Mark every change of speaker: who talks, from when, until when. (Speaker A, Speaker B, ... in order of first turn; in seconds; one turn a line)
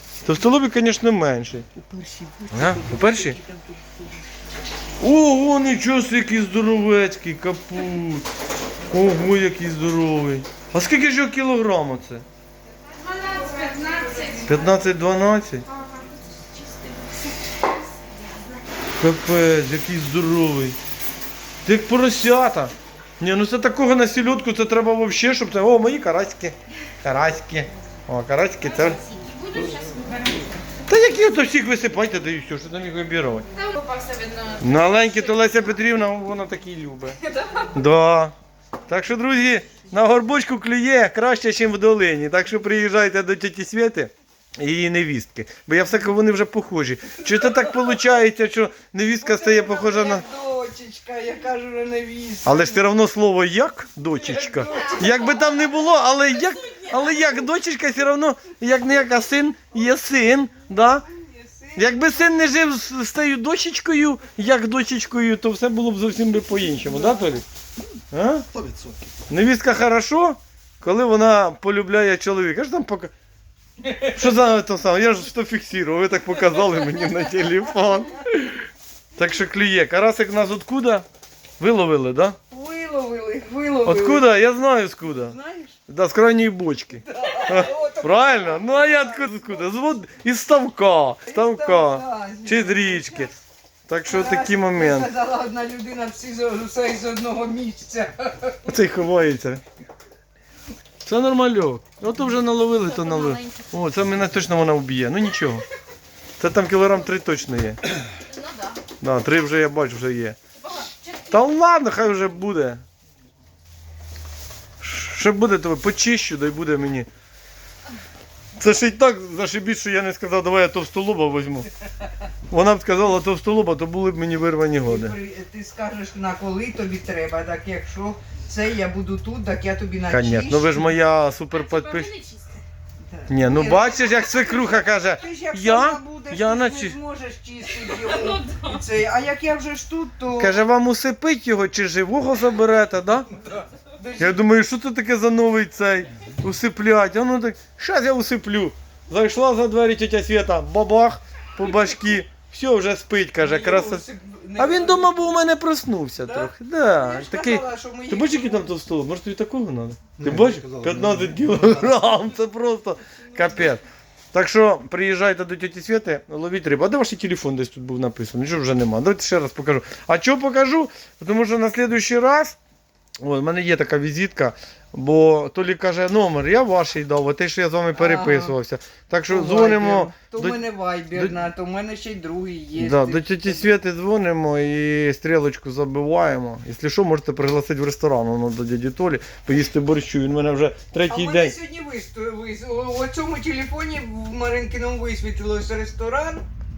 Speaker A: 0.2-1.7
Speaker B: 1.8-4.1
Speaker A: 2.5-3.4
Speaker A: 5.0-8.3
Speaker A: 8.9-12.2
Speaker C: 12.9-14.6
Speaker B: 13.3-14.7
Speaker A: 14.5-15.7
Speaker C: 15.7-18.6
Speaker A: 19.0-20.8
Speaker A: 21.6-29.0
Speaker C: 28.7-30.4
Speaker B: 30.1-30.5
Speaker A: 30.9-33.5
Speaker C: 33.5-35.6
Speaker A: 34.6-37.2
Speaker C: 37.3-37.6
Speaker A: 37.7-38.4
Speaker A: 38.9-50.2
Speaker B: 47.4-48.0
Speaker B: 49.2-52.9
Speaker A: 52.5-61.1
Speaker B: 54.2-55.4
Speaker B: 61.0-62.4
Speaker A: 61.8-67.4
Speaker A: 68.1-68.5
Speaker A: 69.3-73.1
Speaker B: 73.8-74.3
Speaker A: 74.1-78.6
Speaker A: 79.2-81.1
Speaker A: 81.6-82.4
Speaker B: 82.5-84.3
Speaker A: 83.8-85.3
Speaker B: 85.1-85.8
Speaker A: 85.9-93.3
Speaker B: 87.0-89.7
Speaker B: 91.3-93.3
Speaker A: 93.9-95.1
Speaker B: 94.0-98.8
Speaker A: 98.7-99.6
Speaker A: 101.0-105.7
Speaker C: 102.8-103.7
Speaker A: 106.4-107.8
Speaker C: 108.2-108.8
Speaker A: 109.0-110.4
Speaker C: 110.6-111.5
Speaker A: 111.3-112.8
Speaker A: 114.8-117.1
Speaker A: 118.6-121.7
Speaker A: 122.5-125.1
Speaker B: 124.8-130.9
Speaker A: 130.1-132.1
Speaker C: 131.5-132.6
Speaker B: 133.1-140.6
Speaker A: 133.3-137.0
Speaker C: 137.9-138.8
Speaker A: 140.4-143.3
Speaker B: 143.4-144.4
Speaker A: 144.2-154.0
Speaker B: 153.4-155.2
Speaker A: 154.6-163.8
Speaker B: 156.2-158.7
Speaker B: 163.2-163.8
Speaker A: 164.3-172.6
Speaker A: 173.2-180.6
Speaker B: 177.9-178.6
Speaker B: 179.3-183.7
Speaker A: 182.8-191.5
Speaker B: 191.1-196.5